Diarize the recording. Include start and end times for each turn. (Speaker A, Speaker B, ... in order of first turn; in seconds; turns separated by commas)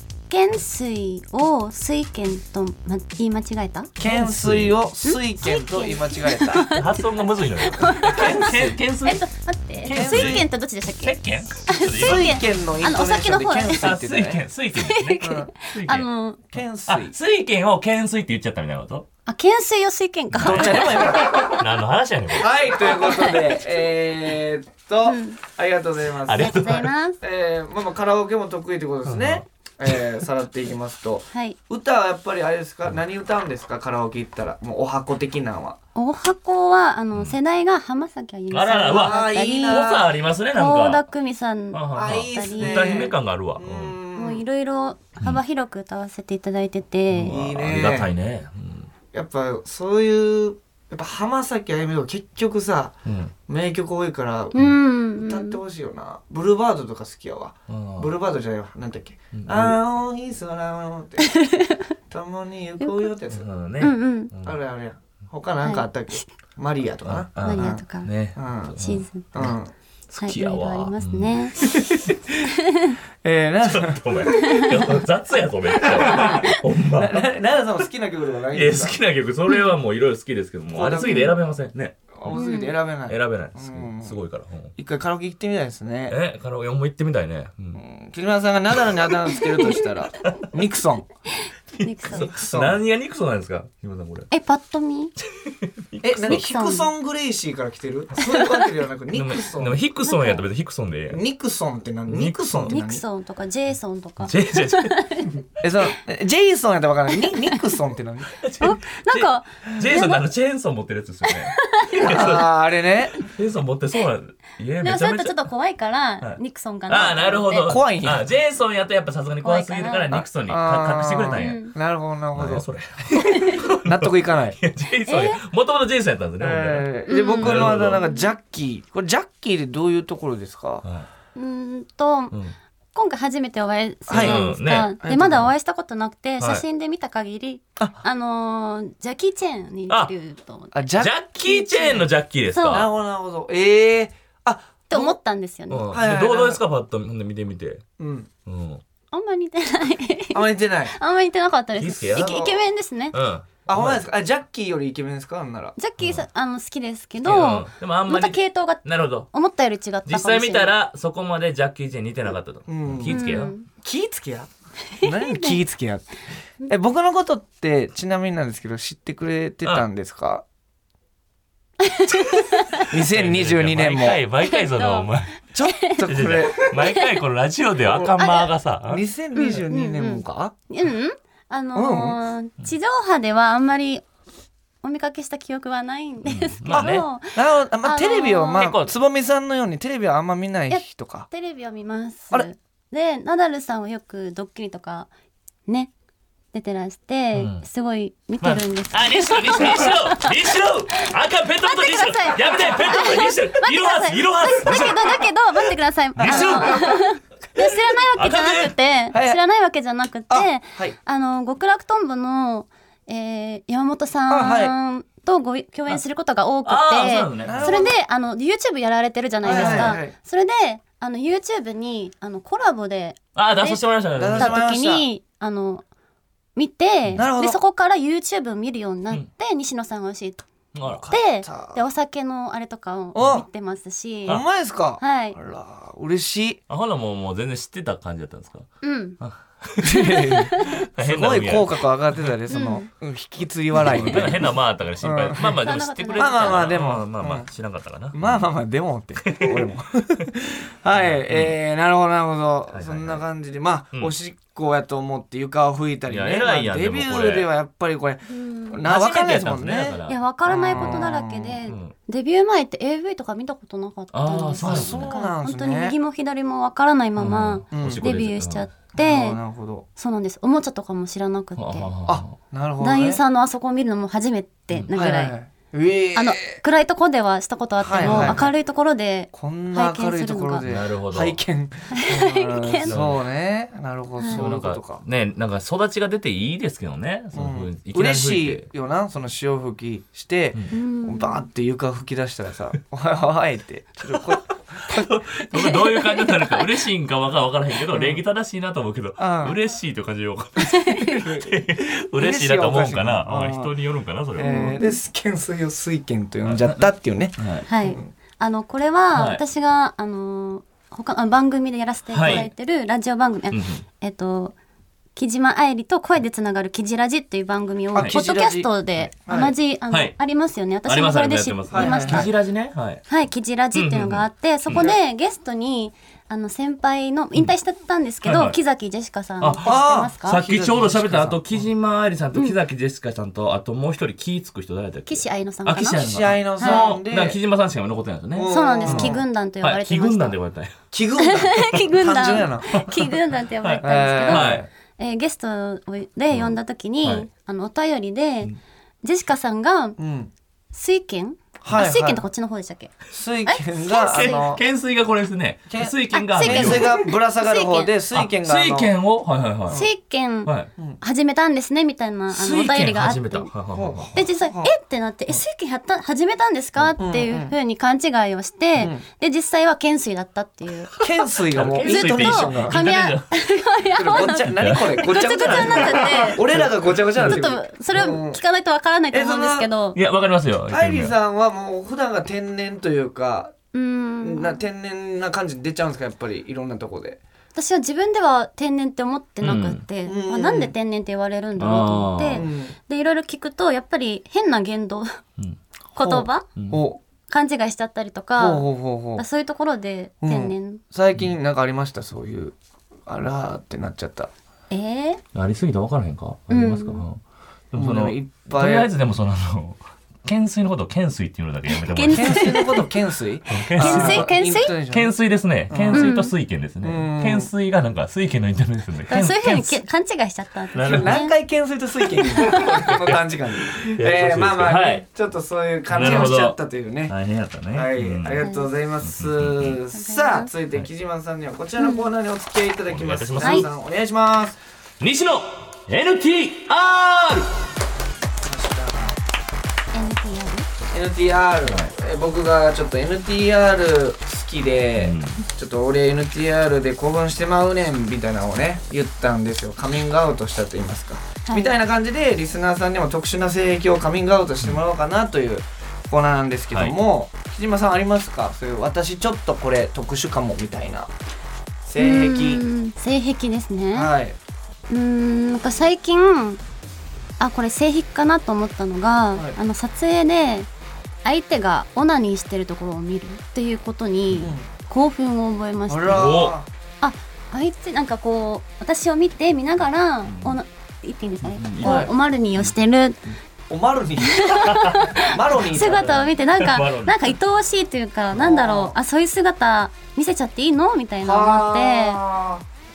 Speaker A: 0.3-3.9, Speaker B: 4.0-6.7, Speaker C: 4.0-4.8, Speaker A: 5.0-7.0, Speaker C: 6.6-9.2, Speaker A: 7.6-13.9, Speaker C: 9.8-10.5, Speaker B: 9.9-10.5, Speaker C: 11.0-12.4, Speaker B: 11.9-14.4, Speaker C: 13.8-16.1, Speaker A: 14.8-16.4, Speaker B: 15.2-15.5, Speaker B: 16.5-17.1, Speaker C: 16.9-19.1, Speaker A: 19.3-21.5, Speaker C: 20.3-22.5, Speaker B: 20.4-21.6, Speaker B: 22.3-26.6, Speaker A: 23.0-23.5, Speaker A: 25.0-25.4, Speaker C: 26.2-26.9, Speaker A: 26.3-27.2, Speaker B: 27.2-35.8, Speaker C: 29.1-30.0, Speaker A: 35.9-39.9, Speaker C: 38.5-41.0, Speaker B: 38.9-40.1, Speaker A: 40.5-43.0, Speaker C: 41.7-44.0, Speaker B: 41.9-44.4, Speaker A: 44.1-47.4, Speaker C: 47.1-48.9, Speaker B: 47.2-48.1, Speaker B: 49.1-52.9, Speaker C: 53.0-53.3, Speaker B: 53.5-54.6, Speaker A: 54.5-55.6, Speaker B: 55.1-61.3, Speaker C: 57.7-58.1, Speaker C: 59.3-59.8, Speaker A: 61.2-61.9, Speaker B: 62.1-63.5, Speaker A: 62.8-63.1, Speaker C: 63.3-64.6, Speaker A: 63.8-64.3, Speaker B: 64.4-67.8, Speaker A: 65.6-66.2, Speaker C: 67.0-69.5, Speaker A: 67.4-68.1, Speaker B: 68.3-68.8, Speaker A: 68.8-69.3, Speaker B: 69.3-69.7, Speaker C: 70.1-71.7, Speaker A: 70.2-71.5, Speaker B: 71.7-72.2, Speaker A: 72.5-73.0, Speaker B: 73.2-74.1, Speaker C: 73.6-77.3, Speaker A: 74.3-74.7, Speaker B: 75.9-79.0, Speaker A: 76.2-76.6, Speaker C: 78.5-82.4, Speaker B: 80.7-81.3, Speaker A: 81.0-81.3, Speaker B: 82.1-84.2, Speaker A: 82.3-82.7, Speaker C: 83.1-84.7, Speaker B: 84.8-86.2, Speaker C: 86.1-87.8, Speaker B: 87.7-91.0, Speaker A: 91.4-92.3, Speaker C: 91.7-94.3, Speaker B: 92.1-92.8, Speaker A: 94.3-95.1, Speaker C: 95.2-96.4, Speaker B: 96.0-99.8, Speaker A: 96.3-96.9, Speaker A: 98.2-98.6, Speaker C: 99.1-101.2, Speaker A: 100.0-100.4, Speaker B: 101.1-103.0, Speaker C: 102.1-102.7, Speaker A: 102.7-105.4, Speaker C: 104.2-105.0, Speaker B: 105.6-108.3, Speaker A: 107.1-107.6, Speaker C: 108.4-112.5, Speaker A: 108.6-110.2, Speaker A: 111.2-112.3, Speaker B: 112.0-113.2, Speaker C: 113.2-115.4, Speaker A: 114.8-117.7, Speaker C: 116.2-121.7, Speaker B: 117.6-118.2, Speaker A: 119.4-120.2, Speaker B: 120.2-122.7, Speaker A: 121.3-121.7, Speaker C: 122.3-128.0, Speaker A: 123.3-123.6, Speaker B: 123.8-124.6, Speaker A: 125.0-125.4, Speaker B: 126.4-130.8, Speaker A: 127.1-128.3, Speaker A: 131.3-132.4, Speaker A: 132.9-140.9, Speaker B: 134.1-134.4, Speaker C: 134.1-134.9, Speaker B: 135.0-135.5, Speaker B: 140.7-141.1, Speaker C: 141.0-142.9, Speaker A: 141.5-142.8, Speaker B: 142.7-145.2, Speaker A: 144.9-145.9, Speaker C: 145.7-147.8, Speaker B: 145.9-146.6, Speaker B: 148.0-148.3, Speaker C: 148.4-148.8, Speaker A: 149.1-153.2, Speaker B: 150.3-150.9, Speaker C: 151.8-152.6, Speaker C: 153.1-154.0, Speaker B: 153.7-155.8, Speaker A: 155.8-160.7, Speaker C: 156.0-156.2, Speaker C: 157.2-159.3, Speaker C: 160.1-163.5, Speaker B: 162.7-163.2, Speaker A: 163.1-163.7, Speaker B: 163.8-164.5, Speaker A: 164.9-165.6, Speaker B: 165.0-166.1, Speaker B: 166.7-170.4, Speaker A: 171.8-172.9, Speaker B: 172.9-174.2, Speaker C: 172.9-175.4, Speaker A: 174.4-175.1, Speaker B: 175.5-176.7, Speaker A: 175.6-176.1, Speaker C: 176.0-179.0, Speaker A: 176.7-177.2, Speaker A: 178.2-178.5, Speaker B: 178.9-180.5, Speaker A: 179.3-184.0, Speaker B: 181.7-182.2, Speaker A: 184.8-188.7, Speaker C: 186.2-187.1, Speaker B: 186.7-191.3, Speaker C: 188.6-188.9, Speaker A: 190.7-195.1, Speaker A: 195.7-195.9, Speaker A: 196.5-200.3, Speaker C: 197.3-197.6, Speaker C: 198.4-205.2, Speaker A: 201.6-223.8, Speaker C: 206.2-207.0, Speaker B: 206.2-206.8, Speaker C: 208.2-208.7, Speaker B: 209.1-209.4, Speaker B: 210.3-210.9, Speaker B: 214.3-214.7, Speaker C: 216.6-217.9, Speaker B: 217.4-217.9, Speaker B: 219.4-220.1, Speaker C: 219.4-220.0, Speaker C: 223.3-224.6, Speaker B: 224.2-225.1, Speaker A: 224.3-225.8, Speaker A: 226.6-230.5, Speaker B: 227.2-227.6, Speaker C: 230.7-231.1, Speaker B: 230.8-231.8, Speaker A: 231.1-234.4, Speaker B: 233.1-233.4, Speaker B: 234.3-236.6, Speaker A: 235.0-235.4, Speaker C: 236.7-242.3, Speaker A: 238.8-239.2, Speaker B: 239.8-245.6, Speaker A: 240.2-240.8, Speaker A: 242.5-242.9, Speaker C: 243.8-248.5, Speaker A: 243.8-244.3, Speaker A: 245.4-246.8, Speaker B: 246.2-247.5, Speaker B: 248.1-261.6, Speaker C: 249.2-249.7, Speaker C: 250.9-251.6, Speaker C: 252.7-253.2, Speaker C: 256.1-257.5, Speaker A: 258.3-258.8, Speaker C: 258.8-260.2, Speaker A: 260.1-269.4, Speaker C: 260.7-261.1, Speaker C: 261.6-261.9, Speaker C: 264.1-265.1, Speaker B: 264.6-265.9, Speaker C: 267.2-268.7, Speaker B: 267.7-268.0, Speaker B: 268.9-269.9, Speaker A: 269.9-271.9, Speaker C: 271.6-272.3, Speaker B: 272.1-273.2, Speaker A: 272.8-275.3, Speaker B: 274.9-276.5, Speaker A: 276.1-280.6, Speaker B: 277.8-278.5, Speaker C: 277.9-278.4, Speaker B: 279.3-285.0, Speaker C: 280.6-281.4, Speaker A: 281.9-282.9, Speaker C: 282.9-283.2, Speaker C: 284.3-288.6, Speaker B: 287.3-295.1, Speaker A: 290.7-291.4, Speaker C: 294.2-304.8, Speaker A: 295.5-296.6, Speaker B: 297.9-298.2, Speaker B: 299.2-299.6, Speaker A: 300.6-301.3, Speaker B: 301.1-301.5, Speaker B: 302.2-303.7, Speaker B: 304.3-308.1, Speaker A: 304.4-305.0, Speaker C: 306.4-307.6, Speaker A: 307.6-314.6, Speaker C: 309.1-309.4, Speaker C: 312.1-312.5, Speaker C: 313.5-313.8, Speaker A: 315.1-322.3, Speaker B: 317.9-319.5, Speaker C: 319.9-320.1, Speaker C: 320.9-323.1, Speaker B: 321.7-322.3, Speaker A: 323.1-330.4, Speaker C: 323.7-324.9, Speaker C: 328.2-328.6, Speaker C: 329.4-340.8, Speaker B: 329.6-331.7, Speaker A: 335.1-336.0, Speaker B: 335.8-337.4, Speaker A: 336.6-336.9, Speaker B: 338.3-339.2, Speaker A: 338.5-340.4, Speaker B: 340.9-342.9, Speaker A: 341.2-350.0, Speaker C: 341.5-344.6, Speaker B: 343.8-344.7, Speaker C: 346.3-347.3, Speaker B: 350.0-350.3, Speaker A: 350.7-352.9, Speaker B: 351.6-352.2, Speaker B: 353.1-354.6, Speaker A: 353.4-354.5, Speaker C: 354.0-357.1, Speaker B: 355.7-358.9, Speaker A: 356.1-357.9, Speaker C: 358.1-359.8, Speaker A: 359.7-363.5, Speaker C: 362.3-364.1, Speaker B: 363.7-364.7, Speaker A: 364.1-370.9, Speaker B: 367.0-367.5, Speaker B: 368.8-369.0, Speaker B: 371.0-372.8, Speaker C: 371.0-373.3, Speaker A: 371.8-376.4, Speaker B: 373.9-378.4, Speaker C: 374.5-377.4, Speaker A: 377.2-380.0, Speaker B: 379.1-379.7, Speaker C: 379.9-381.1, Speaker B: 380.7-383.5, Speaker A: 383.7-384.6, Speaker B: 384.2-387.2, Speaker A: 387.5-395.2, Speaker C: 389.4-389.8, Speaker B: 390.1-390.7, Speaker C: 391.6-392.5, Speaker B: 392.3-392.8, Speaker A: 395.9-396.5, Speaker B: 396.0-397.0, Speaker C: 396.6-396.8, Speaker A: 397.3-400.8, Speaker B: 398.4-399.2, Speaker B: 400.2-402.5, Speaker B: 403.1-404.3, Speaker A: 404.7-405.2, Speaker C: 405.3-407.2, Speaker A: 406.5-407.0, Speaker C: 407.7-412.7, Speaker B: 407.8-408.9, Speaker A: 411.7-412.9, Speaker B: 412.1-415.1, Speaker C: 413.5-414.3, Speaker A: 413.8-414.7, Speaker C: 414.9-419.8, Speaker B: 415.7-416.1, Speaker A: 415.9-416.3, Speaker B: 416.8-417.5, Speaker A: 419.1-421.3, Speaker C: 420.7-421.2, Speaker B: 420.9-427.1, Speaker A: 422.2-422.6, Speaker C: 422.3-425.0, Speaker C: 425.9-428.4, Speaker B: 427.7-434.6, Speaker A: 428.4-428.7, Speaker C: 429.0-429.8, Speaker A: 429.9-430.5, Speaker A: 431.8-432.1, Speaker C: 432.9-433.7, Speaker A: 433.4-433.6, Speaker C: 435.0-437.5, Speaker B: 438.4-439.2, Speaker A: 439.9-440.7, Speaker B: 440.9-461.1, Speaker C: 441.6-441.9, Speaker C: 444.9-445.4, Speaker A: 451.4-451.7, Speaker B: 461.8-462.6, Speaker A: 462.0-464.1, Speaker B: 463.9-464.4, Speaker A: 464.9-466.6, Speaker A: 467.4-470.7, Speaker A: 471.2-476.4, Speaker B: 474.4-474.7, Speaker B: 475.9-476.7, Speaker C: 476.1-476.6, Speaker A: 477.0-483.2, Speaker C: 480.2-480.6, Speaker C: 481.4-482.7, Speaker B: 481.8-482.1, Speaker B: 483.7-484.6, Speaker A: 484.2-492.2, Speaker C: 484.6-485.1, Speaker B: 485.2-486.2, Speaker C: 485.8-487.4, Speaker B: 488.3-488.9, Speaker B: 491.2-492.6